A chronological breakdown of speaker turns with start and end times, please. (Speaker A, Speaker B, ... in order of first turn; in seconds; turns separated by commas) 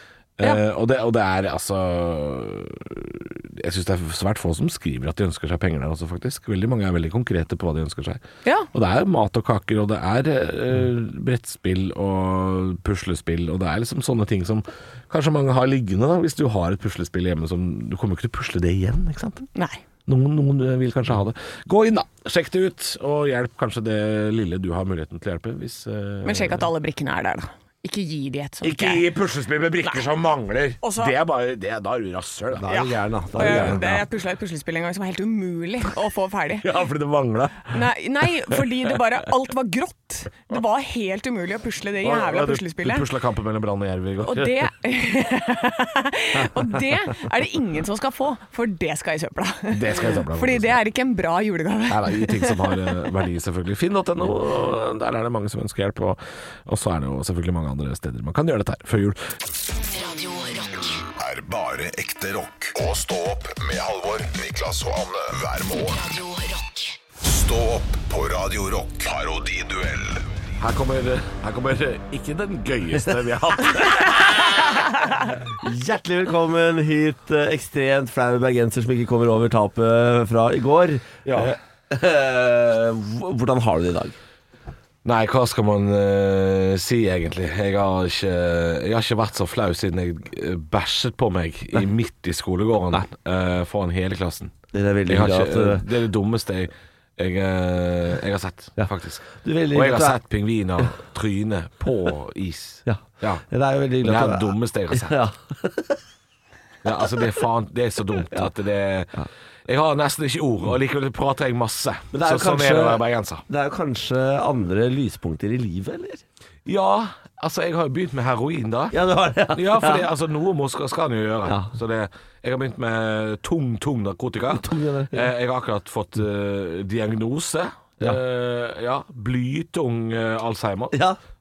Speaker A: 0.4-8.2, Speaker B: 8.4-8.7, Speaker A: 8.7-19.5, Speaker B: 19.5-19.8, Speaker A: 20.1-26.7, Speaker B: 26.2-29.1, Speaker A: 28.6-32.8, Speaker B: 30.8-31.1, Speaker C: 32.6-34.0, Speaker B: 32.7-36.7, Speaker A: 33.4-33.9, Speaker A: 36.6-37.8, Speaker B: 37.7-43.0, Speaker A: 42.0-44.7, Speaker B: 44.2-52.9, Speaker A: 49.7-50.8, Speaker A: 51.9-59.2, Speaker D: 59.7-61.0, Speaker E: 61.2-66.0, Speaker D: 65.8-67.0, Speaker E: 67.2-70.2, Speaker A: 70.6-74.8, Speaker C: 75.6-84.2, Speaker A: 81.2-81.5, Speaker A: 85.0-94.5, Speaker C: 94.7-95.8, Speaker A: 95.1-103.4, Speaker C: 98.8-100.2, Speaker C: 102.8-106.0, Speaker A: 104.0-105.2, Speaker A: 106.8-113.4, Speaker C: 112.1-116.2, Speaker A: 116.7-119.0, Speaker C: 118.9-120.1, Speaker A: 119.5-131.0, Speaker C: 124.5-125.3, Speaker C: 130.9-131.2